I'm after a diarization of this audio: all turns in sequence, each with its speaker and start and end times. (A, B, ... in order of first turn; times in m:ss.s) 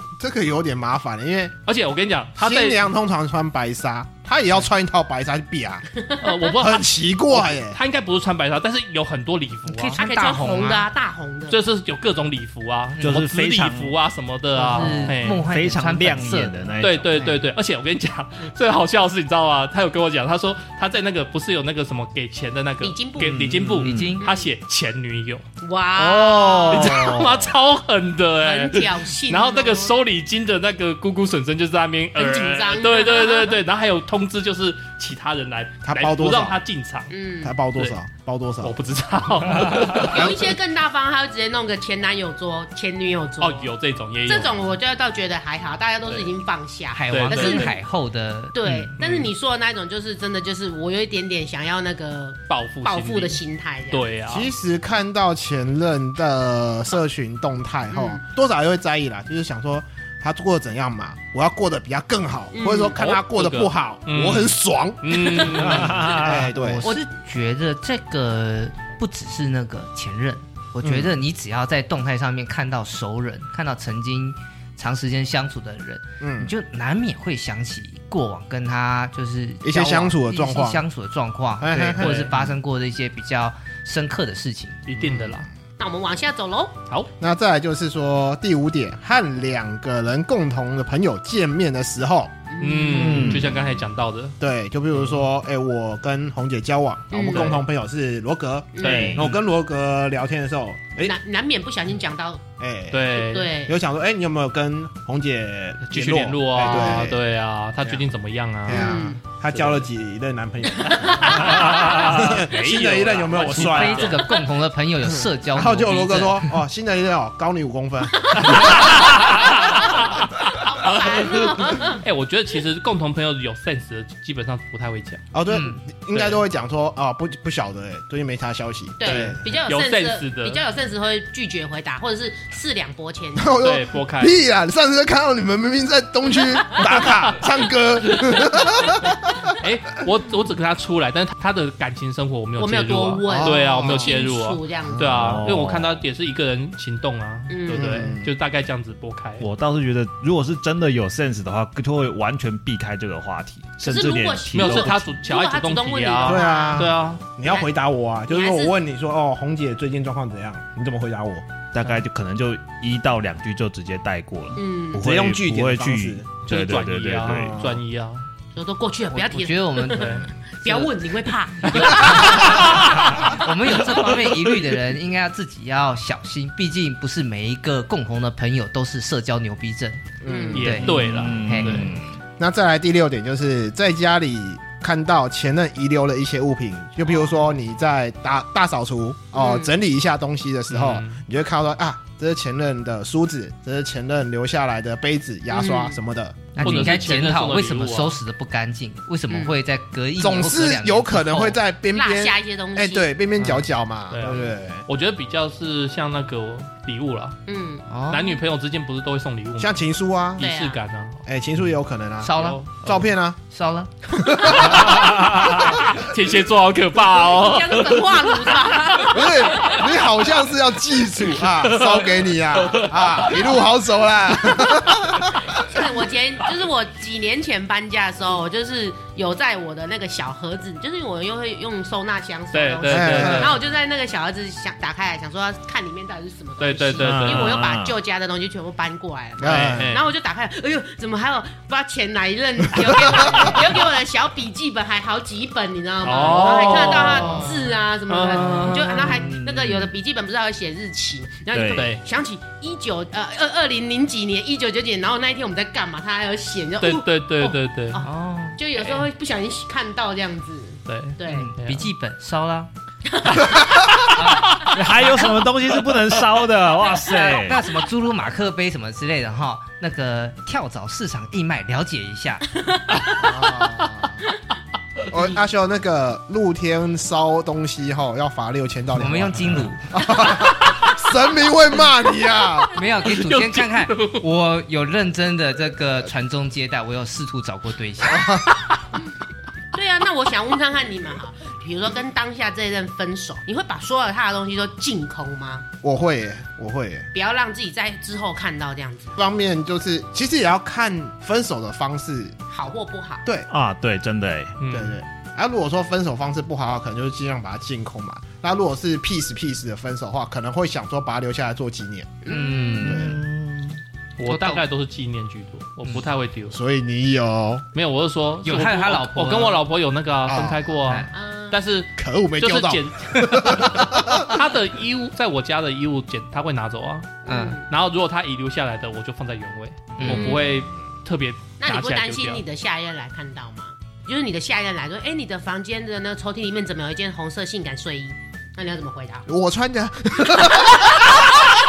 0:00.2-0:01.5 A
0:01.6-0:02.9 B
0:02.4-0:05.8 A
0:06.2-0:10.0 B
0:06.5-0:07.8 A
0:09.7-0:10.8 C
0:10.0-0:11.6 D
0:11.5-0:15.4 B
0:13.0-0:14.0 E
0:14.6-0:17.4 C
0:15.0-0:17.2 E
0:16.8-0:25.4 B
0:22.8-0:23.5 D
0:23.3-0:24.2 E
0:23.8-0:24.2 C
0:24.2-0:24.5 D
0:25.6-0:27.2 D
0:26.0-0:27.5 E
0:26.7-0:37.1 B
0:28.4-0:29.9 D
0:32.1-0:33.6 D
0:35.8-0:36.6 A
0:37.1-0:37.6 D
0:37.4-0:38.8 A
0:38.6-0:40.5 B
0:40.0-0:43.7 D
0:43.4-0:44.7 B
0:44.3-0:47.8 D
0:46.0-0:46.3 B
0:46.9-0:48.7 C
0:47.1-0:47.7 B
0:48.5-0:54.1 D
0:49.0-0:49.3 B
0:52.5-0:54.5 B
0:54.3-1:06.9 A
0:57.9-0:58.2 D
1:02.5-1:03.0 D
1:02.9-1:06.1 B
1:05.6-1:06.5 E
1:06.3-1:24.8 C
1:10.8-1:11.1 A
1:16.2-1:16.5 A
1:19.6-1:20.8 A
1:21.6-1:22.3 A
1:22.0-1:22.3 B
1:24.8-1:25.5 B
1:25.0-1:25.4 A
1:25.8-1:26.8 D
1:27.2-1:32.3 A
1:32.5-1:33.4 D
1:32.6-1:34.4 B
1:32.9-1:33.6 E
1:34.4-1:41.2 A
1:37.1-1:37.6 D
1:37.2-1:37.6 B
1:38.7-1:39.2 D
1:38.8-1:39.3 B
1:38.8-1:39.2 E
1:41.0-1:42.4 D
1:42.6-1:43.1 A
1:42.9-1:43.6 B
1:43.1-1:43.8 D
1:43.7-1:47.2 A
1:45.8-1:49.8 B
1:46.6-1:47.0 D
1:48.6-1:54.2 A
1:48.7-1:49.2 D
1:50.8-1:52.1 D
1:51.0-1:54.3 B
1:53.5-1:56.5 C
1:55.0-1:59.2 A
1:58.4-2:02.0 D
1:58.4-2:05.2 B
2:05.3-2:09.4 A
2:05.5-2:05.8 C
2:06.1-2:06.4 B
2:09.0-2:13.5 D
2:09.0-2:10.6 B
2:13.4-2:19.5 A
2:13.6-2:14.4 B
2:18.2-2:18.5 B
2:19.6-2:29.5 B
2:22.6-2:25.3 D
2:23.3-2:24.1 A
2:24.9-2:25.4 A
2:25.2-2:26.0 E
2:27.5-2:28.1 D
2:27.7-2:28.3 A
2:29.4-2:35.2 E
2:33.8-2:37.7 D
2:34.5-2:37.2 B
2:36.2-2:41.5 A
2:38.3-2:38.7 D
2:41.7-2:47.6 E
2:44.5-2:45.0 D
2:44.9-2:46.2 A
2:46.4-2:48.2 B
2:47.3-2:47.8 A
2:48.5-2:53.4 D
2:49.1-2:50.9 C
2:49.9-2:50.2 B
2:51.6-3:00.0 C
2:51.6-2:53.3 B
3:00.2-3:01.1 A
3:00.2-3:00.8 D
3:00.5-3:01.9 B
3:00.6-3:02.0 C
3:00.8-3:02.1 E
3:02.4-3:16.9 A
3:09.3-3:09.7 D
3:10.7-3:11.2 B
3:15.5-3:16.0 D
3:16.5-3:21.6 C
3:16.6-3:18.2 B
3:19.3-3:19.6 D
3:20.2-3:24.8 A
3:21.9-3:23.1 D
3:23.4-3:27.4 B
3:27.5-3:27.8 D
3:27.9-3:28.4 C
3:28.1-3:29.8 B
3:29.6-3:30.5 A
3:30.4-3:31.2 B
3:30.4-3:30.8 D
3:31.2-3:33.4 A
3:32.2-3:32.9 C
3:32.3-3:33.0 B
3:33.5-3:33.9 C
3:34.1-3:35.6 A
3:34.1-3:35.2 D
3:34.5-3:39.8 B
3:37.0-3:39.9 D
3:39.1-3:45.8 A
3:41.4-3:43.5 B
3:45.5-4:21.5 D
3:52.5-3:53.6 B
3:52.9-3:53.6 A
3:56.6-3:57.6 B
3:57.0-3:58.0 E
3:59.4-3:59.9 A
3:59.4-4:00.1 B
4:02.8-4:03.6 A
4:06.0-4:09.2 B
4:08.4-4:09.2 C
4:09.1-4:09.9 E
4:11.5-4:11.9 E
4:11.7-4:12.0 B
4:16.8-4:18.0 B
4:18.0-4:19.0 C
4:20.9-4:21.9 B
4:21.2-4:22.7 C
4:23.1-4:24.0 D
4:24.0-4:25.1 C
4:24.2-4:24.7 B
4:24.7-4:27.6 E
4:27.1-4:32.4 C
4:32.7-4:33.1 D
4:33.1-4:34.2 A
4:35.1-4:42.7 A
4:39.0-4:39.9 C
4:40.2-4:40.8 D
4:42.7-4:48.4 C
4:43.0-4:44.2 B
4:48.0-4:48.4 A
4:49.7-4:55.7 D
4:55.8-4:57.1 A
4:57.1-4:59.2 D
4:59.2-5:02.4 A
5:02.5-5:03.2 D
5:03.5-5:04.6 E
5:04.6-5:05.0 B
5:04.7-5:12.2 A
5:12.2-5:13.0 D
5:12.2-5:13.2 C
5:12.8-5:13.2 A
5:12.9-5:13.8 E
5:14.2-5:16.6 B
5:14.2-5:14.6 C
5:16.5-5:17.6 A
5:17.7-5:32.4 B
5:18.4-5:19.6 C
5:20.2-5:20.9 A
5:21.1-5:21.6 D
5:22.0-5:24.4 A
5:27.2-5:27.6 C
5:27.2-5:27.6 D
5:30.0-5:30.4 C
5:30.0-5:30.6 D
5:31.6-5:39.2 D
5:39.3-5:41.5 A
5:40.5-5:41.0 D